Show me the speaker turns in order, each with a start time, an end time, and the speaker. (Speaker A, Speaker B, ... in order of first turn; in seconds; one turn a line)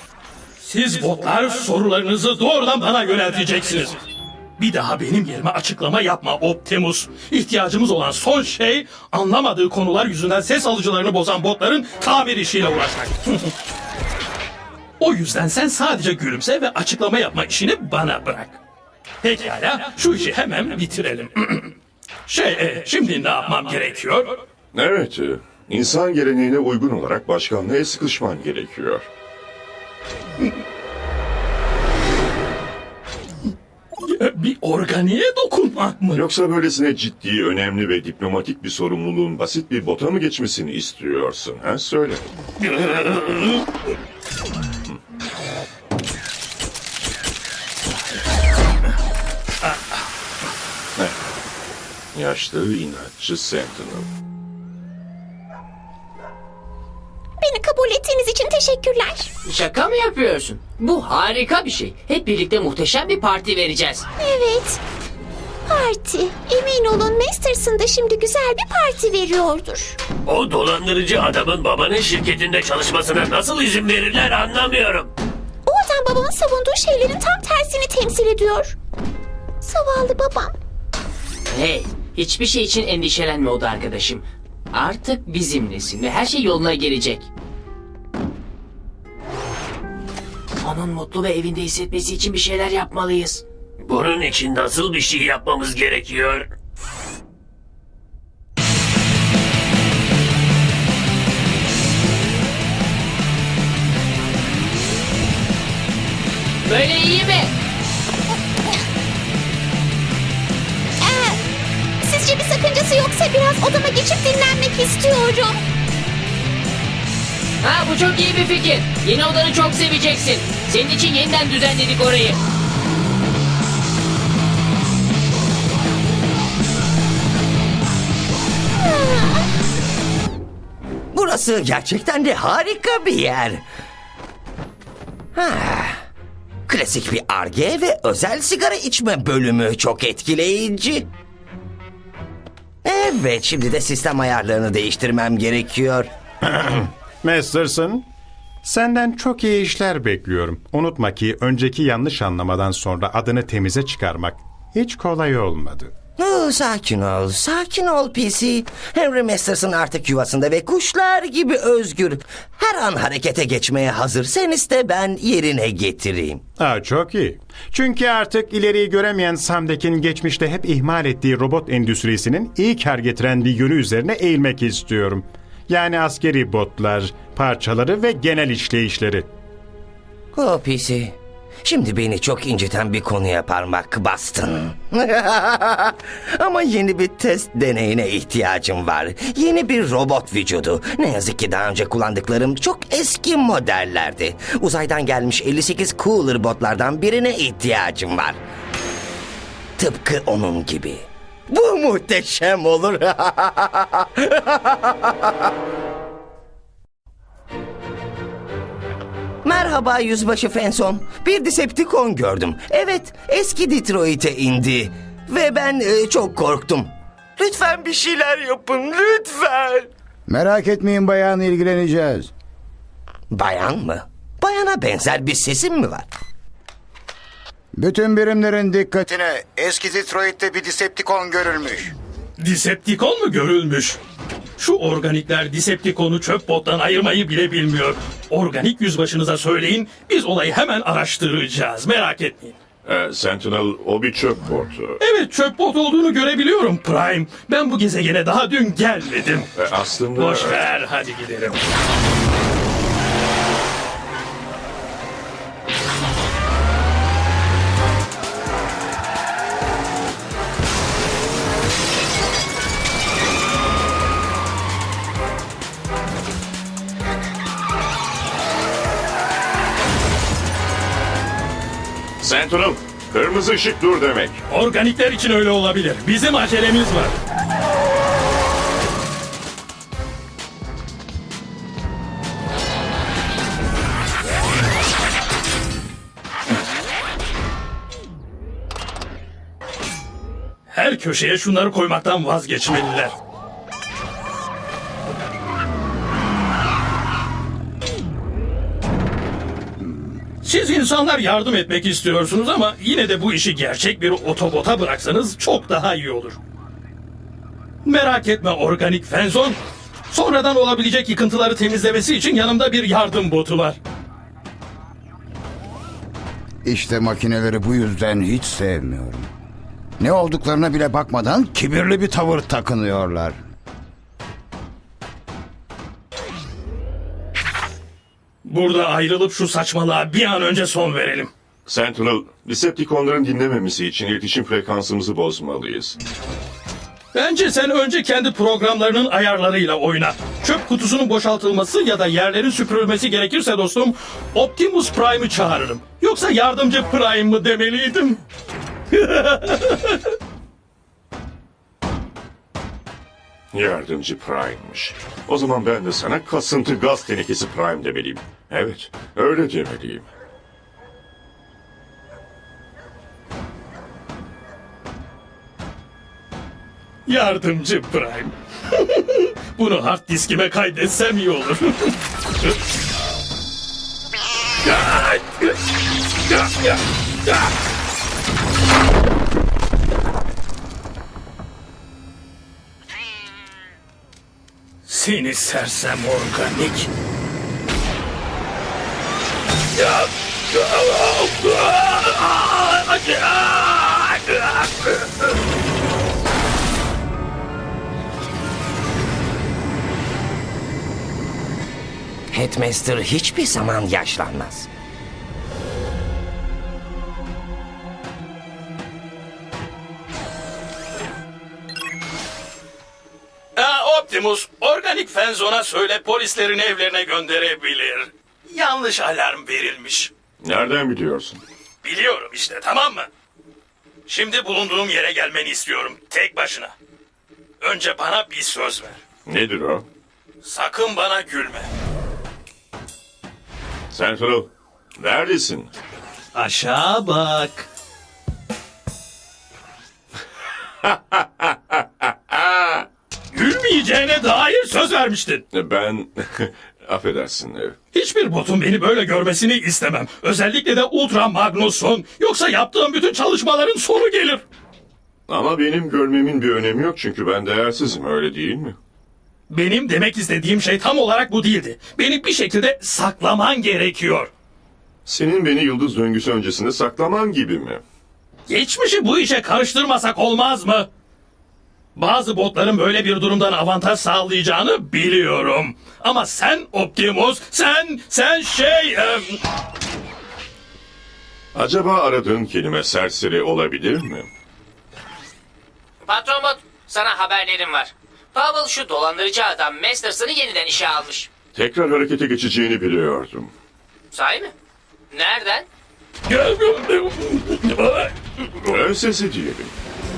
Speaker A: 0.6-4.0
Speaker A: 4.6-13.5
Speaker A: 15.0-18.6
Speaker A: 19.2-21.7
Speaker A: 22.3-24.4
Speaker B: 24.7-29.1
Speaker A: 34.0-36.2
Speaker B: 36.1-42.2
Speaker A: 42.6-43.6
Speaker B: 52.1-54.1
Speaker C: 57.4-59.3
Speaker D: 59.5-64.1
Speaker C: 64.2-64.8
Speaker C: 65.7-70.0
Speaker E: 70.2-75.1
Speaker C: 75.7-78.8
Speaker C: 79.6-80.5
Speaker D: 81.5-87.3
Speaker D: 90.6-93.4
Speaker E: 93.8-96.5
Speaker D: 106.6-107.5
Speaker C: 111.0-111.4
Speaker C: 112.0-115.6
Speaker D: 117.6-122.4
Speaker C: 128.8-129.4
Speaker F: 131.1-133.6
Speaker F: 135.3-136.0
Speaker F: 136.7-141.1
Speaker F: 142.8-146.1
Speaker G: 147.2-148.1
Speaker G: 148.6-155.9
Speaker F: 156.2-166.4
Speaker G: 166.6-179.3
Speaker F: 180.3-198.4
Speaker F: 199.8-205.3
Speaker F: 209.4-219.9
Speaker H: 220.3-222.3
Speaker F: 223.3-226.1
Speaker H: 227.8-231.9
Speaker A: 232.4-234.0
Speaker A: 234.6-242.6
Speaker B: 242.8-245.0
Speaker A: 245.0-249.5
Speaker B: 249.6-250.6
Speaker A: 250.2-251.6
Speaker B: 272.2-274.4
Speaker A: 274.5-277.1
Speaker A: 290.7-293.1
Speaker H: 299.8-300.2
Speaker A: 300.4-306.4
Speaker A: 307.9-309.6
Speaker A: 310.1-313.8
Speaker H: 316.6-319.3
Speaker H: 320.0-323.4
Speaker A: 328.4-331.3
Speaker B: 331.7-336.0
Speaker A: 337.1-348.2
Speaker A: 348.9-350.1
Speaker B: 353.5-360.1
Speaker A: 367.1-372.5
Speaker A: 374.6-375.6
Speaker A: 376.3-377.4
Speaker A: 384.9-386.9
Speaker A: 389.8-395.1
Speaker F: 402.3-404.7
Speaker A: 413.6-420.1
Speaker B: 420.4-421.4
Speaker A: 421.8-423.1
Speaker A: 424.1-426.8
Speaker A: 427.6-429.0
Speaker B: 429.3-429.9
Speaker A: 430.4-431.7
Speaker B: 433.9-435.7
Speaker A: 436.4-437.7
Speaker B: 440.9-442.9
Speaker A: 443.3-445.4
Speaker B: 445.5-447.8
Speaker A: 447.9-454.4
Speaker B: 455.3-458.8
Speaker A: 459.5-464.3
Speaker B: 465.1-467.8
Speaker A: 468.5-470.9
Speaker A: 472.0-479.4
Speaker B: 481.6-484.3
Speaker D: 486.0-491.3
Speaker B: 491.6-493.5
Speaker D: 494.1-494.5
Speaker D: 495.1-495.7
Speaker A: 496.3-498.7
Speaker B: 498.7-499.7